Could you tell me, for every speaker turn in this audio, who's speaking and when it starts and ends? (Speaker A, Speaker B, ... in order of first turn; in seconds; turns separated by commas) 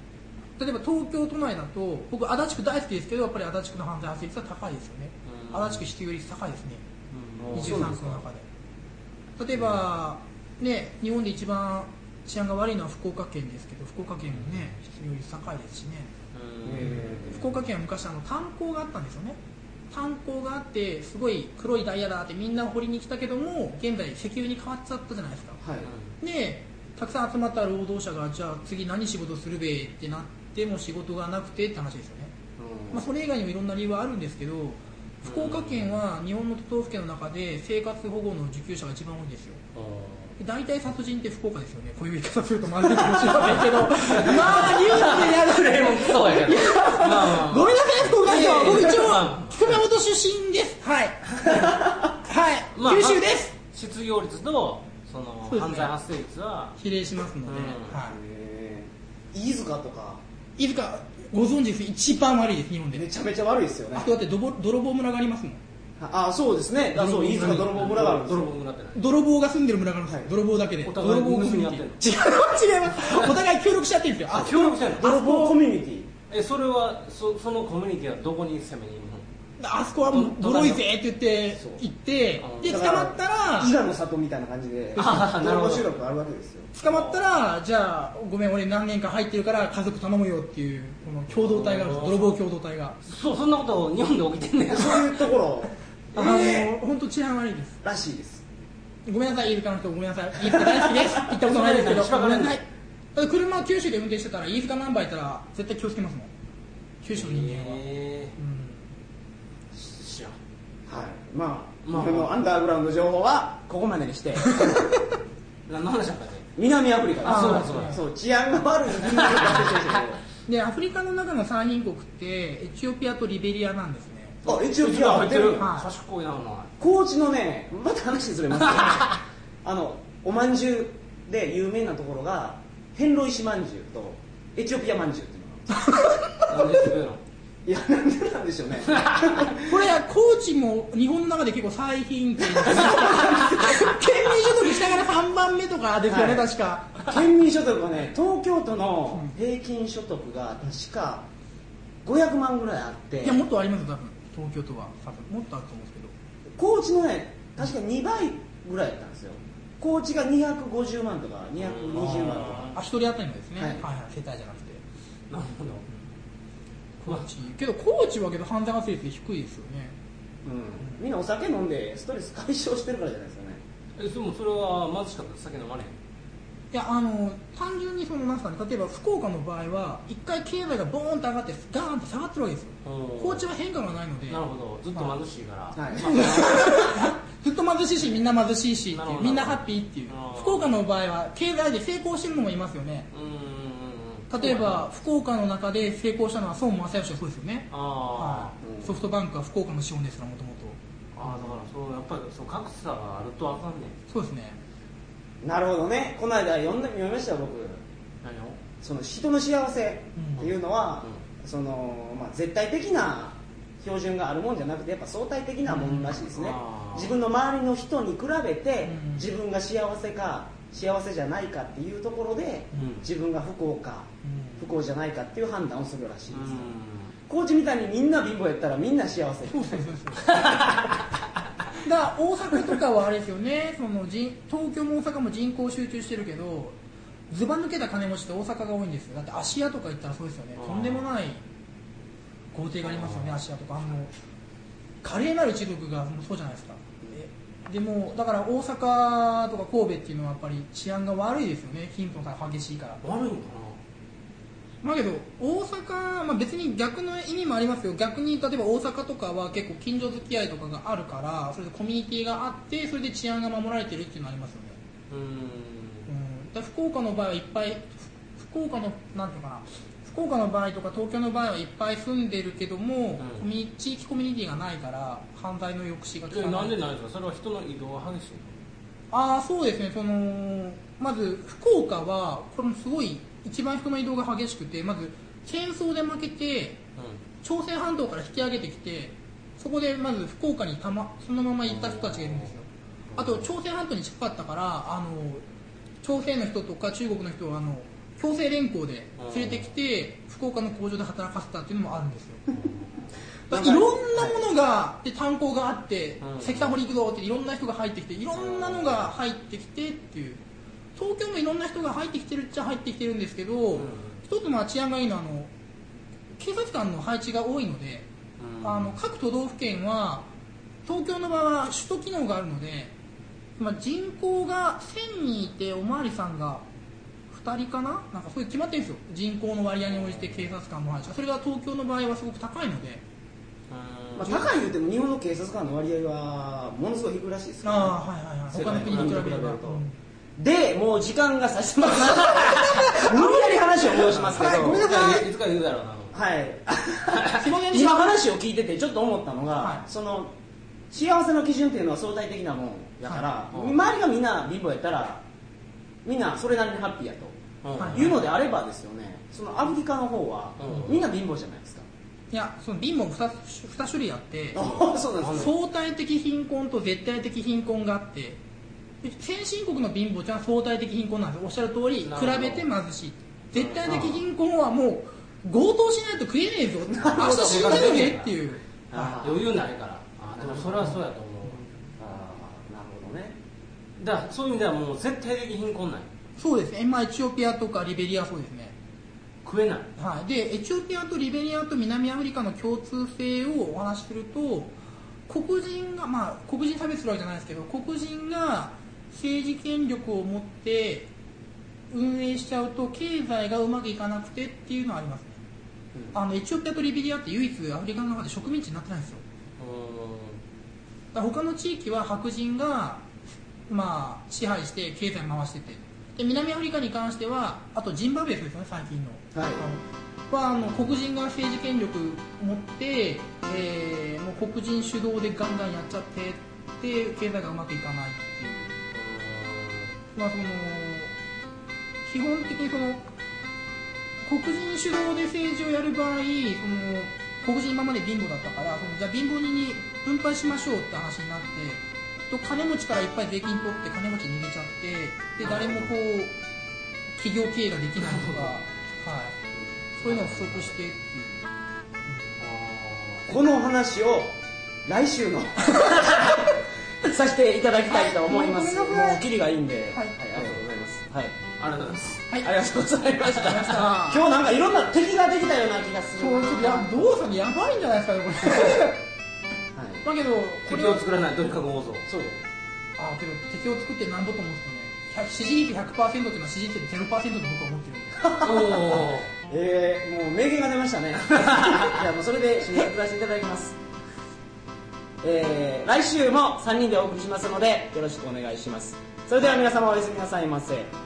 Speaker A: 0.6-6.8, Speaker B: 5.2-5.8, Speaker B: 7.1-8.1, Speaker C: 7.4-8.2, Speaker A: 7.5-8.4, Speaker A: 9.4-16.1, Speaker B: 9.5-9.8, Speaker B: 14.2-14.8, Speaker B: 16.3-17.1, Speaker C: 16.6-17.5, Speaker A: 16.8-19.4, Speaker A: 19.9-25.6, Speaker C: 25.6-25.9, Speaker B: 25.8-26.1, Speaker A: 26.2-32.3, Speaker C: 32.6-33.1, Speaker A: 32.9-39.6, Speaker B: 35.2-36.0, Speaker B: 39.7-40.3, Speaker A: 40.4-53.5, Speaker B: 43.5-49.8, Speaker C: 48.2-48.9, Speaker C: 51.6-52.0, Speaker B: 52.8-56.8, Speaker A: 55.5-55.9, Speaker A: 56.8-58.2, Speaker B: 57.4-58.0, Speaker C: 58.1-60.2, Speaker A: 60.6-63.1, Speaker C: 62.9-64.1, Speaker A: 63.9-65.6, Speaker C: 66.0-68.5, Speaker A: 66.9-67.8, Speaker B: 67.3-69.0, Speaker A: 68.9-75.6, Speaker C: 70.1-70.3, Speaker B: 70.8-72.0, Speaker B: 73.0-73.3, Speaker B: 74.3-75.1, Speaker C: 75.0-76.1, Speaker B: 76.3-79.2, Speaker A: 79.6-83.8, Speaker B: 80.0-80.8, Speaker C: 81.6-81.8, Speaker B: 82.4-82.8, Speaker C: 82.6-87.2, Speaker B: 84.9-85.9, Speaker A: 86.7-93.0, Speaker B: 91.3-92.4, Speaker B: 93.0-95.2, Speaker C: 94.7-96.7, Speaker B: 96.1-96.5, Speaker A: 96.1-97.8, Speaker C: 97.8-98.4, Speaker A: 99.0-106.3, Speaker C: 100.5-101.2, Speaker B: 101.4-102.6, Speaker A: 107.0-108.9, Speaker B: 107.1-108.3, Speaker B: 109.7-110.3, Speaker C: 110.9-114.8, Speaker B: 111.8-112.3, Speaker A: 114.4-115.1, Speaker B: 115.7-116.5, Speaker C: 116.6-120.2, Speaker B: 117.2-118.0, Speaker A: 117.2-118.0, Speaker B: 119.0-120.0, Speaker A: 120.4-124.4, Speaker B: 124.4-126.7, Speaker C: 124.5-125.7, Speaker A: 125.5-125.9, Speaker C: 126.8-136.3, Speaker A: 135.8-136.2, Speaker B: 136.5-137.2, Speaker C: 137.6-139.8, Speaker B: 138.9-139.4, Speaker A: 139.6-147.2, Speaker C: 142.6-143.5, Speaker C: 146.1-146.5, Speaker C: 147.0-151.2, Speaker C: 152.0-153.4, Speaker A: 153.2-156.1, Speaker C: 156.6-162.7, Speaker B: 161.6-162.8, Speaker A: 162.7-164.8, Speaker C: 163.6-163.8, Speaker B: 165.3-165.8, Speaker A: 167.0-169.9, Speaker C: 170.4-173.6, Speaker B: 174.0-175.9, Speaker A: 176.7-184.4, Speaker B: 182.8-183.5, Speaker B: 184.3-186.9, Speaker C: 185.7-186.2, Speaker A: 185.9-193.1, Speaker B: 188.9-190.7, Speaker B: 193.1-194.9, Speaker A: 194.3-201.6, Speaker B: 197.7-198.6, Speaker C: 198.6-199.0, Speaker B: 201.2-203.9, Speaker A: 204.1-204.6, Speaker C: 205.4-207.8, Speaker B: 208.2-208.6, Speaker C: 208.8-226.7, Speaker A: 210.2-210.5, Speaker A: 215.7-216.2, Speaker B: 216.3-217.2, Speaker A: 218.8-219.3, Speaker B: 222.8-223.0, Speaker A: 224.2-224.8, Speaker B: 226.3-227.1, Speaker C: 227.3-229.9, Speaker A: 229.5-230.5, Speaker B: 230.3-231.0, Speaker A: 231.8-236.8, Speaker A: 237.3-241.4, Speaker B: 240.6-241.1, Speaker A: 242.5-244.1, Speaker B: 242.8-243.4, Speaker A: 245.0-253.0, Speaker B: 253.0-253.8, Speaker A: 254.8-264.8, Speaker B: 265.1-266.1, Speaker A: 266.1-276.8, Speaker B: 273.2-273.4, Speaker B: 276.3-278.5, Speaker A: 279.1-286.8, Speaker A: 287.4-295.4, Speaker B: 291.6-292.5, Speaker B: 293.1-293.5, Speaker A: 296.0-302.5, Speaker B: 299.2-299.7, Speaker C: 303.5-304.4, Speaker A: 303.5-310.4, Speaker B: 306.2-306.7, Speaker B: 308.3-309.1, Speaker A: 310.9-315.5, Speaker B: 313.7-314.2, Speaker A: 316.4-318.1, Speaker B: 318.4-319.0, Speaker A: 318.6-320.3, Speaker A: 320.9-322.9, Speaker A: 323.6-326.6, Speaker A: 327.3-333.0, Speaker B: 329.9-330.5, Speaker B: 333.7-334.6, Speaker C: 334.1-339.8, Speaker A: 337.6-340.0, Speaker B: 338.5-339.4, Speaker C: 340.4-344.9, Speaker A: 342.4-345.3, Speaker B: 343.9-346.1, Speaker C: 346.1-350.3, Speaker B: 347.1-347.4, Speaker A: 347.3-348.2, Speaker A: 349.6-349.8, Speaker C: 350.9-355.2, Speaker B: 353.5-353.8, Speaker C: 356.0-357.4, Speaker B: 357.6-358.2, Speaker A: 357.8-358.1, Speaker C: 357.9-361.8, Speaker B: 360.6-361.0, Speaker A: 362.3-364.6, Speaker C: 364.5-365.5, Speaker B: 364.6-365.5, Speaker A: 365.2-368.4, Speaker A: 369.0-379.2, Speaker B: 372.0-372.7, Speaker B: 373.5-374.2, Speaker C: 376.9-378.1, Speaker B: 377.1-378.4, Speaker C: 378.9-379.4, Speaker B: 378.9-381.6, Speaker C: 380.4-380.9, Speaker C: 382.0-383.4, Speaker B: 384.0-386.1, Speaker A: 386.4-388.7, Speaker B: 389.4-389.9, Speaker A: 390.0-394.7, Speaker A: 395.3-401.1, Speaker A: 401.9-405.4, Speaker C: 405.9-406.2, Speaker A: 406.1-409.2, Speaker B: 409.6-410.4, Speaker A: 411.1-413.0, Speaker A: 413.7-428.7, Speaker C: 419.3-419.6, Speaker B: 420.6-420.9, Speaker B: 428.9-429.9, Speaker A: 430.1-431.1, Speaker A: 432.0-433.0, Speaker A: 434.2-446.3, Speaker B: 445.4-445.9, Speaker A: 447.2-449.4, Speaker B: 447.9-448.6, Speaker A: 449.9-451.4, Speaker B: 450.0-450.7, Speaker A: 452.1-452.4, Speaker B: 452.4-453.4, Speaker C: 453.3-456.4, Speaker A: 455.8-456.2, Speaker C: 457.0-461.4, Speaker A: 457.9-459.2, Speaker A: 459.9-460.2, Speaker B: 461.6-462.3, Speaker C: 462.4-467.0, Speaker A: 463.3-464.2, Speaker A: 466.1-469.0, Speaker C: 469.7-470.0, Speaker A: 470.0-471.1, Speaker B: 470.6-472.1, Speaker C: 472.1-472.4, Speaker A: 473.0-478.3, Speaker C: 478.2-483.8, Speaker B: 478.4-479.3, Speaker B: 481.4-482.0, Speaker C: 485.2-490.9